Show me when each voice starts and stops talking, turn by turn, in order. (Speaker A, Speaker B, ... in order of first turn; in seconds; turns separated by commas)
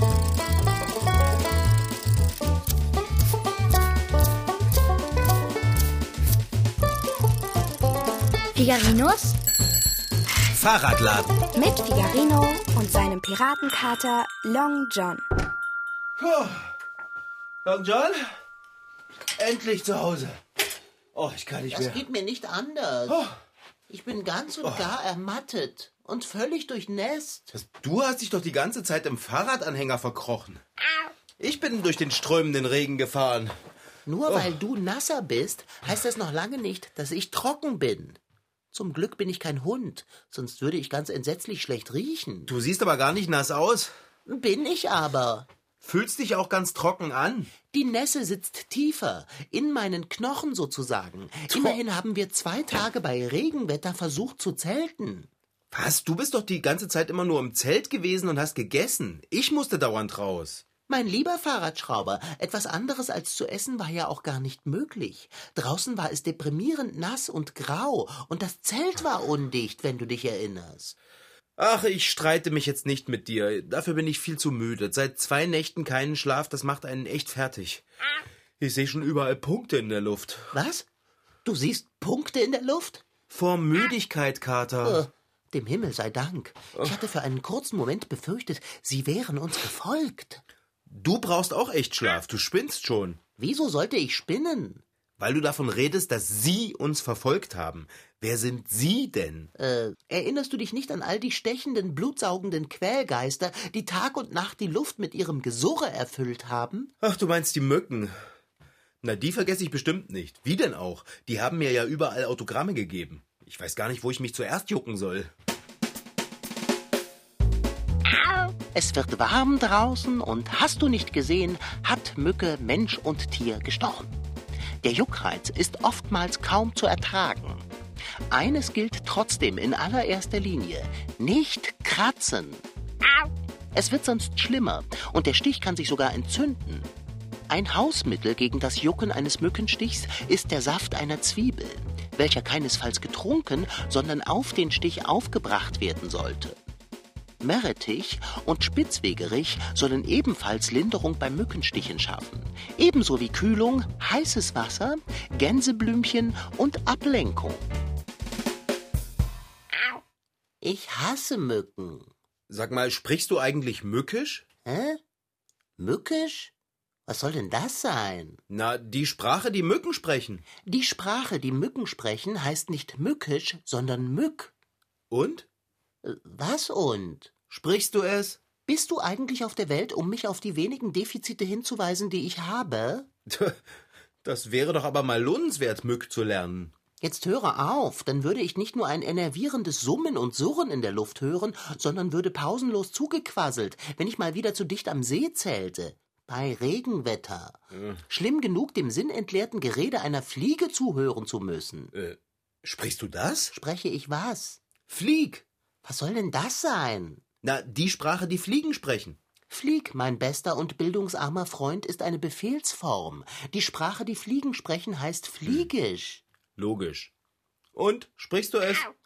Speaker A: 8.6-9.3, Speaker B: 10.5-11.3, Speaker A: 11.5-15.2, Speaker B: 16.2-16.7, Speaker B: 17.6-18.3, Speaker B: 19.4-20.4, Speaker B: 21.1-22.0, Speaker C: 21.7-23.2, Speaker B: 23.1-23.3, Speaker C: 23.9-27.5, Speaker B: 24.6-24.9, Speaker B: 27.5-30.6, Speaker B: 31.4-33.5, Speaker C: 34.0-38.2, Speaker B: 34.2-34.6, Speaker C: 38.7-42.5, Speaker B: 42.5-43.9, Speaker C: 44.3-45.5, Speaker B: 45.8-47.5, Speaker C: 47.6-55.3, Speaker B: 51.5-51.8, Speaker B: 55.7-60.6, Speaker C: 60.9-71.0, Speaker B: 71.6-77.8, Speaker B: 78.6-80.5, Speaker C: 80.5-80.8, Speaker C: 81.4-83.1, Speaker B: 83.3-85.0, Speaker C: 84.8-90.4, Speaker B: 90.9-93.2, Speaker C: 93.4-94.8, Speaker B: 95.2-99.5, Speaker C: 99.5-106.9, Speaker B: 107.0-108.1, Speaker B: 109.0-115.3, Speaker C: 118.7-124.1, Speaker C: 124.8-127.7, Speaker C: 128.3-132.6, Speaker C: 133.7-136.9, Speaker C: 137.5-146.6, Speaker C: 147.4-157.6, Speaker C: 160.6-162.1, Speaker B: 162.5-164.4, Speaker C: 164.6-165.0, Speaker C: 165.8-166.5, Speaker C: 167.1-168.4, Speaker B: 168.5-170.4, Speaker C: 170.7-174.5, Speaker B: 175.1-175.4, Speaker C: 176.0-177.3, Speaker B: 177.5-178.4, Speaker C: 178.6-183.1, Speaker B: 183.3-183.6, Speaker B: 184.2-186.7, Speaker C: 187.0-197.6, Speaker B: 197.7-198.0, Speaker C: 198.1-201.9, Speaker B: 201.9-203.5, Speaker C: 203.5-204.6, Speaker B: 204.9-205.4, Speaker C: 205.8-207.2, Speaker B: 207.4-209.2, Speaker C: 209.5-216.2, Speaker B: 216.6-217.1, Speaker B: 217.7-218.9